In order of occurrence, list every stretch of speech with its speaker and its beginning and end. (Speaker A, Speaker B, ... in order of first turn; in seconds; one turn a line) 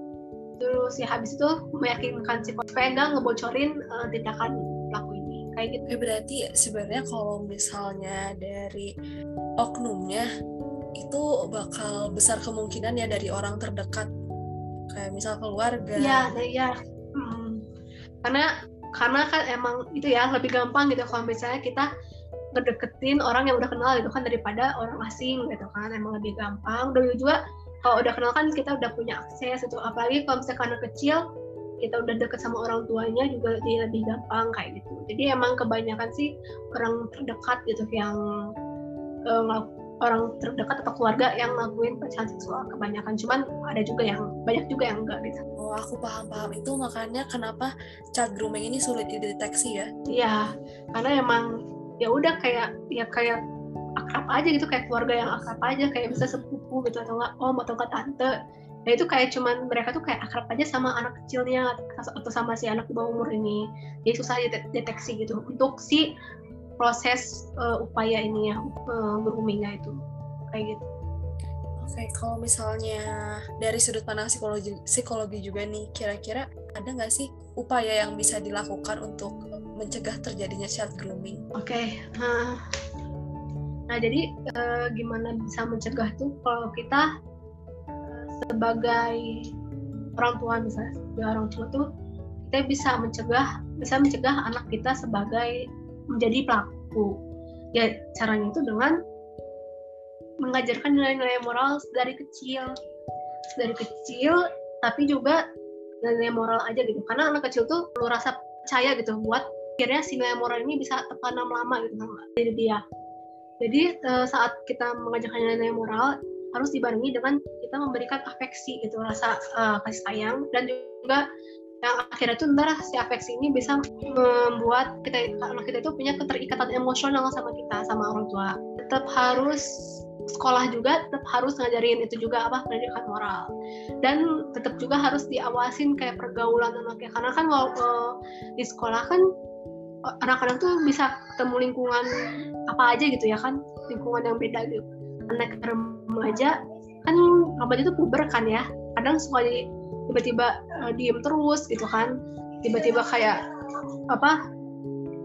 Speaker A: 0.6-5.8
Speaker B: 5.9-8.9
Speaker B: 9.6-10.2
Speaker B: 11.0-14.1
Speaker B: 14.9-16.3
Speaker A: 16.0-17.6
Speaker A: 18.2-21.9
Speaker A: 22.5-31.2
Speaker A: 31.8-38.2
Speaker A: 39.3-45.4
Speaker B: 45.6-49.9
Speaker A: 50.1-51.5
Speaker A: 52.0-53.4
Speaker A: 54.0-58.3
Speaker A: 58.9-66.0
Speaker A: 66.8-69.9
Speaker A: 70.5-70.8
Speaker B: 71.8-73.0
Speaker B: 73.6-81.4
Speaker A: 81.6-82.6
Speaker A: 83.9-87.1
Speaker A: 88.1-89.5
Speaker A: 90.2-91.8
Speaker A: 92.5-95.6
Speaker A: 96.1-97.1
Speaker A: 97.7-99.0
Speaker A: 100.4-102.7
Speaker A: 103.6-105.4
Speaker A: 106.0-112.8
Speaker A: 113.6-121.2
Speaker A: 121.8-129.6
Speaker A: 130.3-133.4
Speaker A: 134.0-139.2
Speaker A: 140.2-142.1
Speaker A: 142.7-152.1
Speaker A: 152.6-153.4
Speaker A: 154.1-154.4